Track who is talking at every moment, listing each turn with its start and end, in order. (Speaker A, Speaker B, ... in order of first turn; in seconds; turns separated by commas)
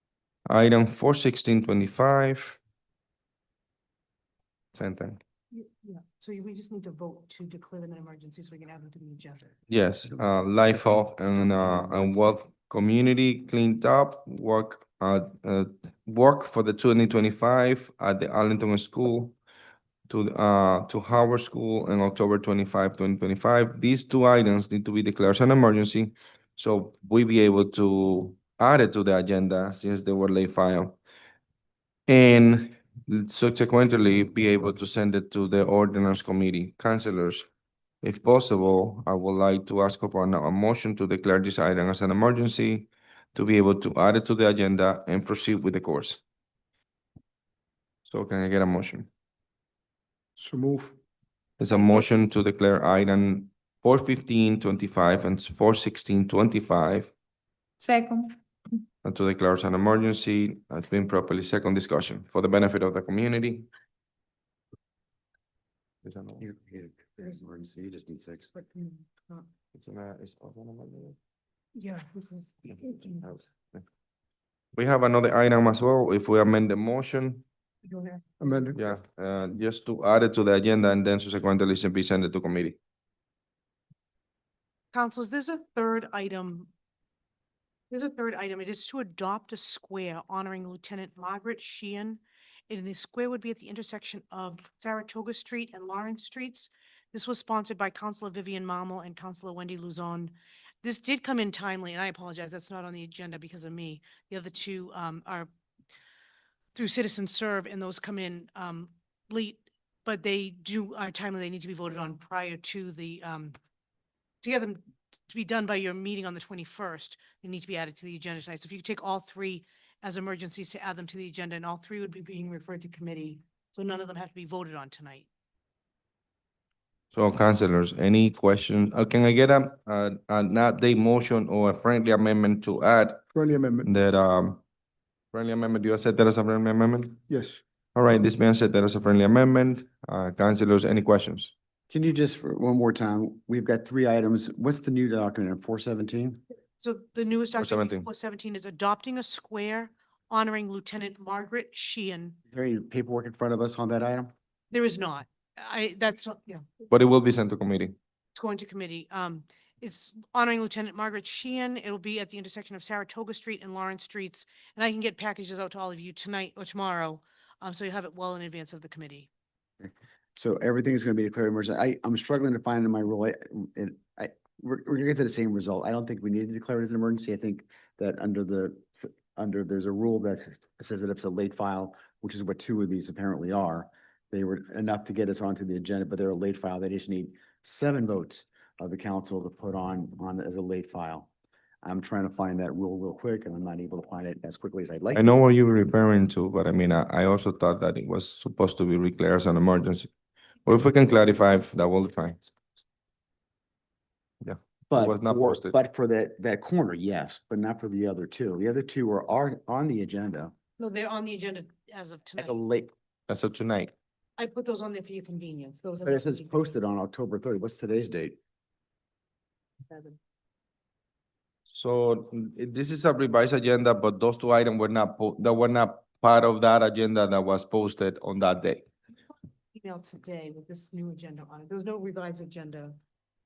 Speaker A: 0.5-2.6, Speaker A: 4.7-5.2, Speaker B: 5.5-9.5, Speaker A: 9.7-19.4, Speaker A: 20.1-31.0, Speaker A: 32.1-37.5, Speaker A: 38.0-46.2, Speaker A: 48.1-49.1, Speaker C: 50.4-51.0, Speaker A: 51.6-57.1, Speaker A: 59.0-63.7, Speaker A: 66.0-66.4, Speaker D: 66.4-68.5, Speaker B: 68.5-69.5, Speaker A: 69.7-71.2, Speaker B: 71.8-73.2, Speaker A: 73.2-73.8, Speaker A: 74.7-77.4, Speaker B: 77.8-78.7, Speaker C: 78.4-78.8, Speaker A: 78.8-82.8, Speaker B: 84.9-86.7, Speaker B: 87.9-105.5, Speaker B: 106.7-113.5, Speaker B: 114.4-125.3, Speaker A: 127.1-133.2, Speaker C: 133.3-133.9, Speaker A: 133.8-134.6, Speaker A: 135.3-137.2, Speaker C: 137.3-137.6, Speaker A: 137.9-141.5, Speaker D: 141.9-146.4, Speaker B: 146.8-152.4, Speaker A: 147.6-148.1, Speaker D: 152.5-154.3, Speaker B: 154.7-156.6, Speaker A: 156.9-158.0, Speaker B: 158.3-169.3, Speaker D: 169.8-191.3, Speaker D: 191.8-195.4, Speaker A: 195.1-200.1, Speaker A: 200.7-202.5, Speaker A: 204.4-205.8, Speaker D: 204.9-210.5, Speaker B: 210.8-212.6, Speaker D: 212.4-212.9, Speaker A: 213.3-213.9, Speaker B: 214.4-216.7, Speaker D: 216.1-218.4, Speaker B: 219.9-220.2, Speaker A: 221.7-228.9, Speaker B: 229.7-233.0